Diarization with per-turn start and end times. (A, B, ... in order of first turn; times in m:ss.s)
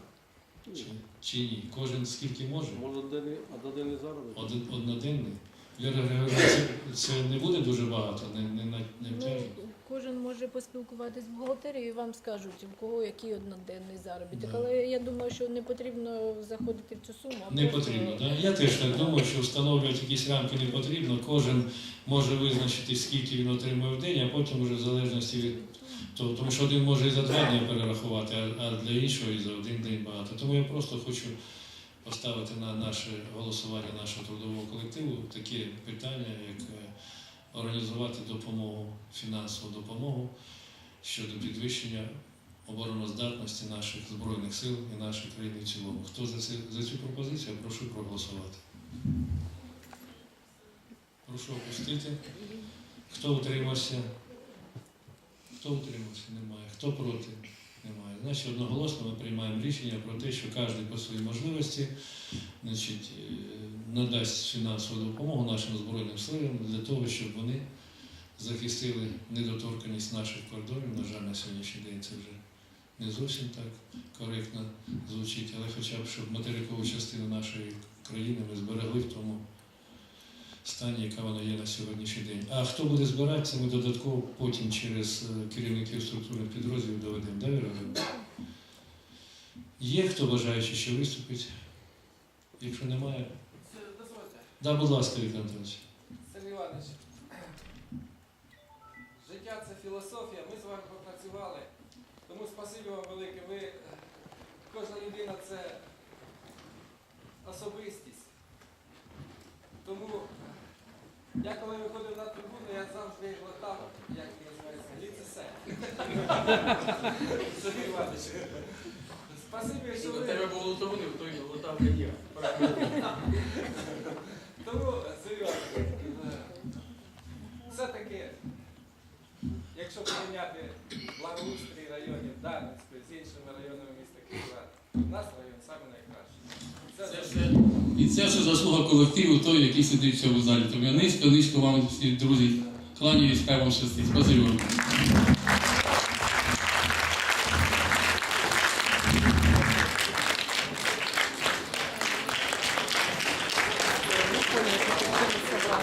0:00.7-0:02.8 A
0:02.9-0:04.4 B
0:04.3-0:09.6 A
0:09.0-0:18.2 C
0:14.3-0:14.6 A
0:17.5-0:25.6 A
0:26.1-0:31.3 A
0:32.0-0:36.9 A
0:37.5-0:40.3 A
0:41.0-0:42.1 A
0:42.6-0:48.6 A
0:51.2-0:52.4 A
0:53.1-0:54.1 A
0:55.5-1:01.9 A
1:02.6-1:07.6 A
1:08.4-1:12.4 A
1:13.0-1:19.4 A
1:20.6-1:28.0 A
1:29.8-1:31.5 A
1:32.6-1:33.3 A
1:33.6-1:34.4 D
1:34.6-1:35.8 A
1:36.3-1:37.4 D
1:39.2-1:41.7 D
1:42.3-1:44.0 D
1:44.7-1:45.8 D
1:47.4-1:48.3 D
1:49.8-1:50.5 D
1:51.4-2:00.6 D
1:59.9-2:03.0 B
2:02.7-2:06.7 D
2:07.6-2:08.4 D
2:09.7-2:17.6 D
2:17.0-2:24.9 B
2:34.3-2:35.6 D